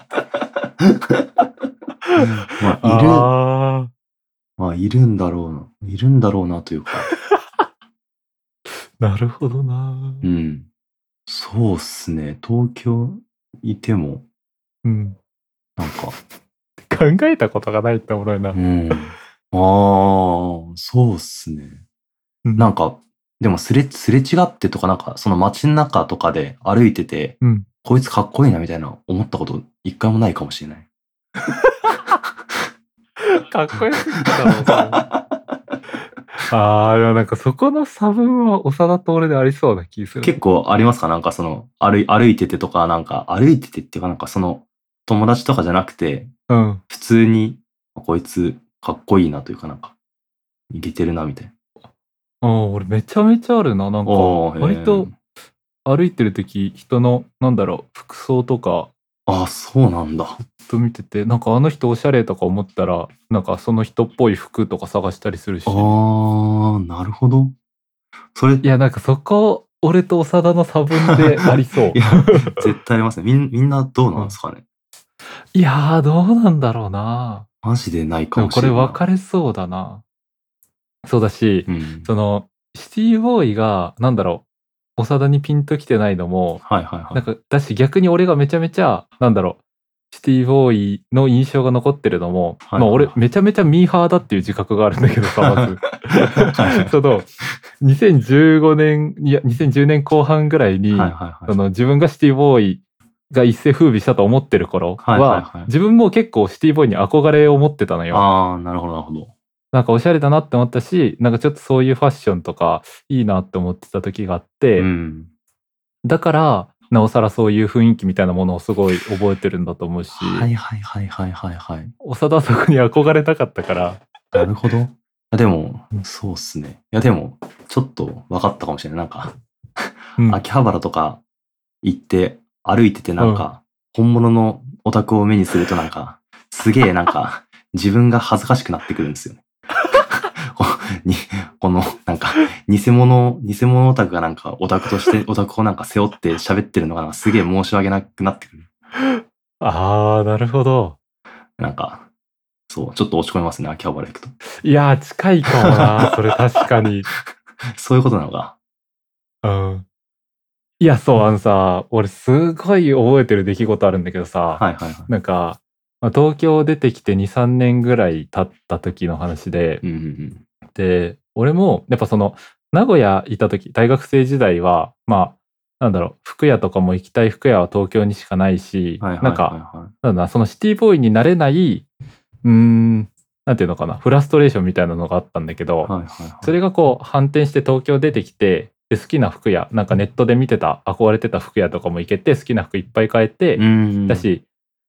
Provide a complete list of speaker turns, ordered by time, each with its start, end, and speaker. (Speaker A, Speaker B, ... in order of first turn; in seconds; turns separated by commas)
Speaker A: 0.8-1.3, Speaker B: 2.1-3.9, Speaker A: 2.2-3.3, Speaker A: 4.6-7.1, Speaker B: 9.0-10.2, Speaker A: 10.2-10.7, Speaker A: 11.3-14.2, Speaker B: 14.8-15.2, Speaker A: 15.8-16.2, Speaker B: 16.8-18.6, Speaker A: 18.5-21.8, Speaker B: 22.4-22.7, Speaker A: 22.6-30.9, Speaker B: 27.4-27.7, Speaker B: 31.5-32.0, Speaker B: 33.2-35.0, Speaker A: 34.7-35.3, Speaker B: 36.5-40.4, Speaker A: 40.2-46.3, Speaker B: 46.5-46.8, Speaker A: 46.9-50.0, Speaker A: 50.7-51.5, Speaker B: 52.4-55.1, Speaker A: 54.1-55.1, Speaker B: 55.9-58.9, Speaker A: 59.3-60.4, Speaker B: 60.6-66.0, Speaker A: 65.7-67.6, Speaker A: 68.3-68.7, Speaker B: 68.6-72.6, Speaker A: 71.9-74.6, Speaker B: 75.5-77.5, Speaker A: 77.6-79.0, Speaker B: 78.4-80.0, Speaker B: 81.0-84.5, Speaker A: 81.7-82.1, Speaker B: 85.0-89.6, Speaker A: 86.6-87.2, Speaker B: 90.1-108.3, Speaker A: 92.7-93.2, Speaker A: 95.4-96.9, Speaker A: 100.9-101.6, Speaker A: 105.0-105.7, Speaker A: 108.1-109.3, Speaker B: 109.7-114.9, Speaker A: 114.8-115.3, Speaker B: 116.0-120.5, Speaker A: 120.2-121.9, Speaker B: 122.0-124.0, Speaker A: 124.3-131.2, Speaker A: 131.8-148.7, Speaker B: 133.2-133.4, Speaker B: 149.0-151.0, Speaker A: 151.6-152.1, Speaker A: 152.7-154.3, Speaker B: 154.6-157.1, Speaker A: 157.7-158.6, Speaker B: 159.4-159.9, Speaker B: 160.8-169.8, Speaker A: 164.6-165.1, Speaker A: 169.8-170.4, Speaker B: 170.7-181.9, Speaker A: 179.0-179.9, Speaker B: 182.4-185.9, Speaker A: 185.8-186.6, Speaker B: 186.4-194.4, Speaker A: 193.6-194.3